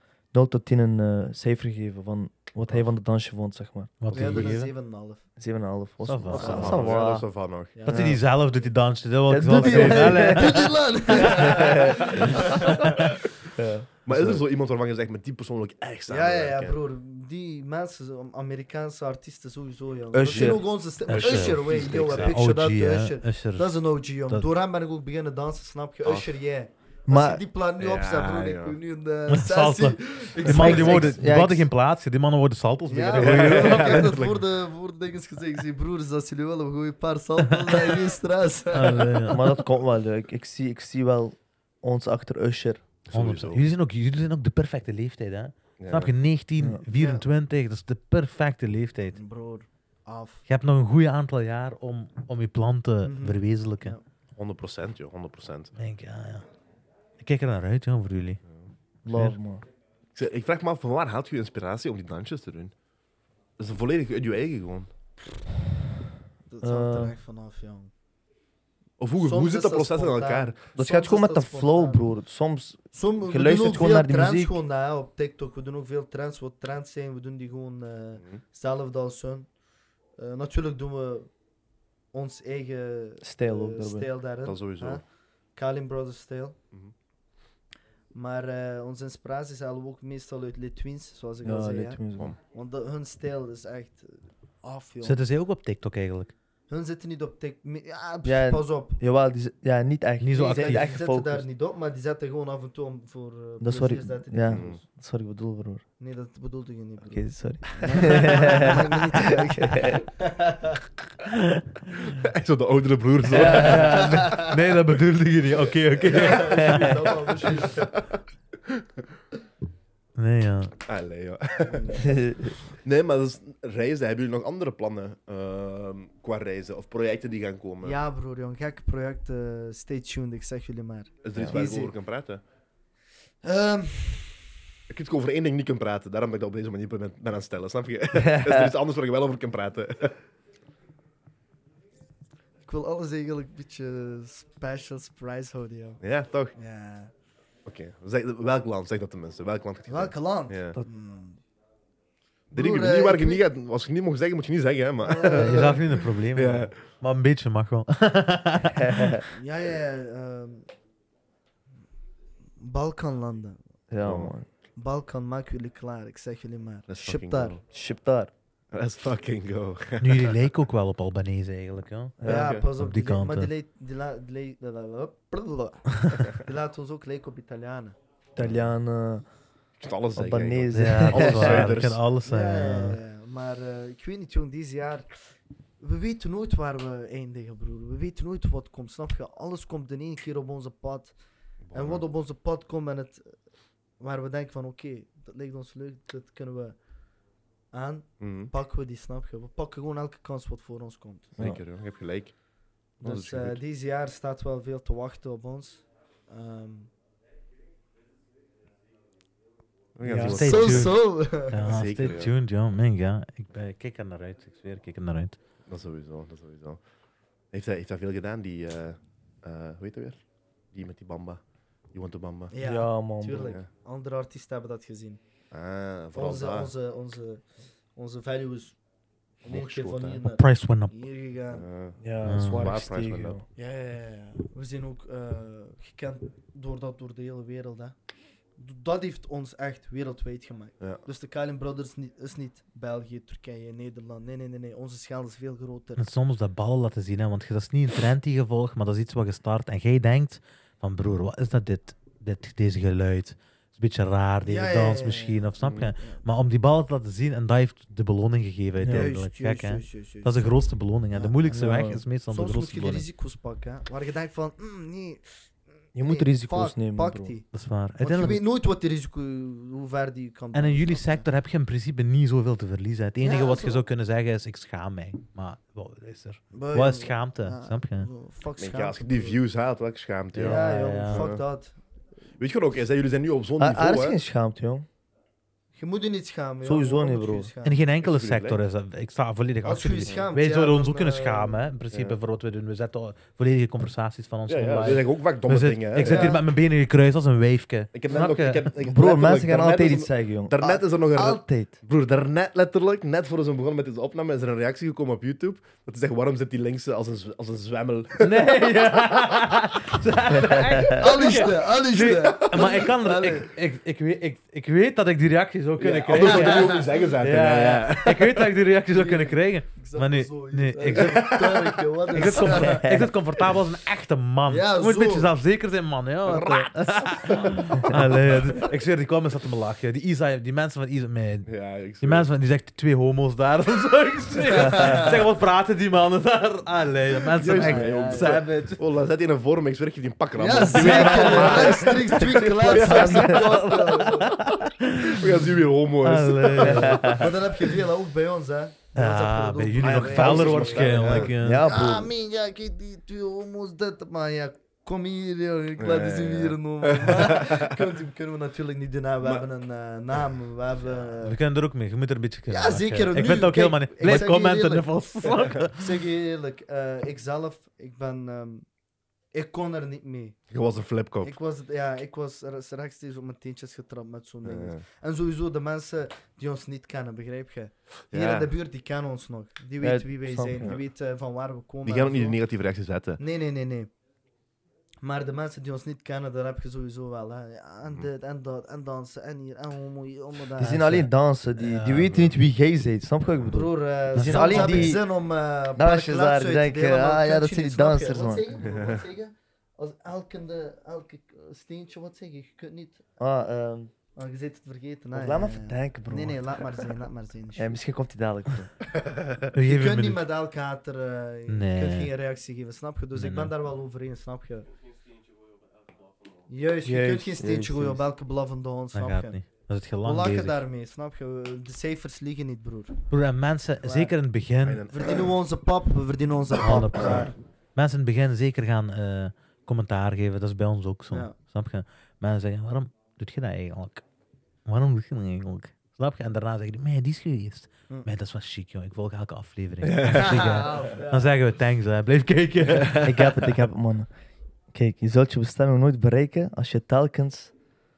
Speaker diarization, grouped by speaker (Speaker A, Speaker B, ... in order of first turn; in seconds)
Speaker A: 0.3-4.5, 5.4-7.3, 7.9-8.2, 9.3-12.4, 13.6-14.4, 20.1-20.7, 27.1-27.4, 30.4-31.7, 39.3-42.8, 59.0-59.6, 66.6-67.2, 70.8-74.6, 83.2-84.1, 91.4-92.3, 98.2-101.5, 103.6-105.8, 107.1-110.0, 113.3-114.1, 122.0-122.5, 138.1-138.7, 158.7-159.2, 163.9-164.5, 167.7-168.3, 172.2-172.6, 178.4-179.3, 180.2-181.7, 210.0-210.4, 222.6-223.6, 232.0-233.4, 258.8-259.1, 261.5-262.0, 265.9-267.3, 283.6-284.9, 286.6-287.5, 298.8-301.8, 310.3-311.1, 322.4-323.1, 341.5-343.7, 346.6-347.3, 351.3-352.1, 379.8-380.8, 390.6-395.1, 395.8-398.4, 403.2-403.9, 405.1-406.4, 407.6-408.7, 416.9-418.1, 443.0-444.1, 444.7-447.5
Speaker B: 4.0-4.7, 6.0-7.0, 7.9-11.2, 21.1-24.5, 29.3-34.2, 37.5-38.0, 38.7-39.5, 43.1-49.2, 50.5-54.0, 55.8-56.5, 57.2-58.4, 59.1-59.4, 95.0-96.3, 100.2-101.0, 111.3-112.1, 113.2-117.1, 120.2-120.8, 155.3-159.2, 170.0-172.2, 172.8-173.5, 176.0-176.2, 180.7-183.0, 210.2-215.4, 230.3-230.9, 232.2-232.7, 246.0-263.1, 267.5-268.4, 270.5-278.1, 280.3-281.3, 287.6-298.7, 308.2-321.4, 322.1-331.5, 332.0-338.8, 340.6-341.9, 343.6-347.3, 348.9-351.6, 361.2-366.0, 390.6-392.3, 394.1-394.9, 409.5-410.2, 411.5-412.1, 413.1-413.5, 418.9-420.6, 423.1-424.9, 426.6-434.0, 434.7-443.5
Speaker C: 4.1-5.2, 6.3-6.8, 7.8-8.2, 9.6-13.1, 16.1-31.2, 32.9-39.2, 46.9-47.2, 49.1-50.4, 53.0-54.0, 66.5-67.9, 69.2-72.1, 72.9-79.5, 80.2-81.3, 82.1-85.0, 85.5-86.6, 88.1-92.0, 92.5-95.2, 96.7-99.0, 100.3-104.8, 106.0-110.8, 113.5-114.5, 116.0-117.9, 121.7-122.1, 127.8-131.9, 133.4-134.5, 142.7-146.0, 146.5-147.1, 149.9-151.4, 152.5-153.4, 155.0-155.8, 159.3-160.7, 162.6-163.6, 164.8-167.6, 172.2-178.0, 182.2-185.1, 185.8-191.2, 191.7-193.3, 194.0-196.8, 197.7-201.4, 203.0-206.9, 210.4-211.8, 222.5-225.2, 226.1-227.4, 227.9-228.8, 229.4-231.7, 233.6-237.9, 238.6-246.0, 254.4-256.2, 258.9-261.4, 262.3-267.5, 268.0-271.3, 273.2-273.8, 276.5-279.4, 280.4-281.8, 285.8-287.8, 289.6-291.6, 296.0-296.4, 310.9-313.5, 316.1-317.1, 318.9-323.1, 324.5-325.3, 334.5-335.2, 337.6-338.7, 340.4-344.3, 347.1-361.4, 362.5-368.7, 369.3-370.4, 371.2-382.4, 383.2-383.9, 385.0-391.1, 393.5-403.0, 404.2-407.7, 409.6-414.7, 416.5-419.4, 420.0-423.0, 423.8-424.1, 424.9-427.3, 440.1-441.3
Speaker D: 6.3-7.8, 14.1-16.8, 21.1-22.3, 26.0-26.3, 27.8-28.8, 33.2-34.4, 43.1-43.6, 45.8-46.1, 54.4-55.7, 60.1-62.7, 63.6-64.9, 69.0-70.6, 84.5-85.0, 104.5-104.8, 112.1-114.0, 116.1-116.6, 117.5-118.1, 120.8-122.2, 122.7-128.0, 131.2-132.4, 134.9-140.2, 146.0-146.5, 147.7-150.8, 152.5-156.7, 164.0-164.3, 166.9-167.6, 168.7-170.4, 172.3-172.6, 178.4-178.7, 179.8-182.0, 191.7-192.0, 198.2-198.5, 201.4-202.3, 203.0-203.6, 210.0-210.9, 211.6-212.3, 215.7-216.8, 217.5-220.2, 220.7-221.4, 221.9-222.5, 223.4-223.7, 225.5-226.7, 229.5-230.2, 231.5-233.4, 255.6-255.9, 278.6-281.4, 282.4-284.2, 288.0-288.6, 291.9-292.2, 294.5-296.4, 297.9-308.5, 312.3-312.9, 315.8-318.5, 320.9-321.8, 326.3-328.4, 331.5-332.3, 337.3-344.4, 345.0-347.2, 349.8-351.3, 355.8-357.8, 370.5-371.4, 374.4-374.8, 378.1-378.5, 381.9-383.2, 398.6-399.0, 409.1-409.5, 424.6-425.2, 439.8-440.6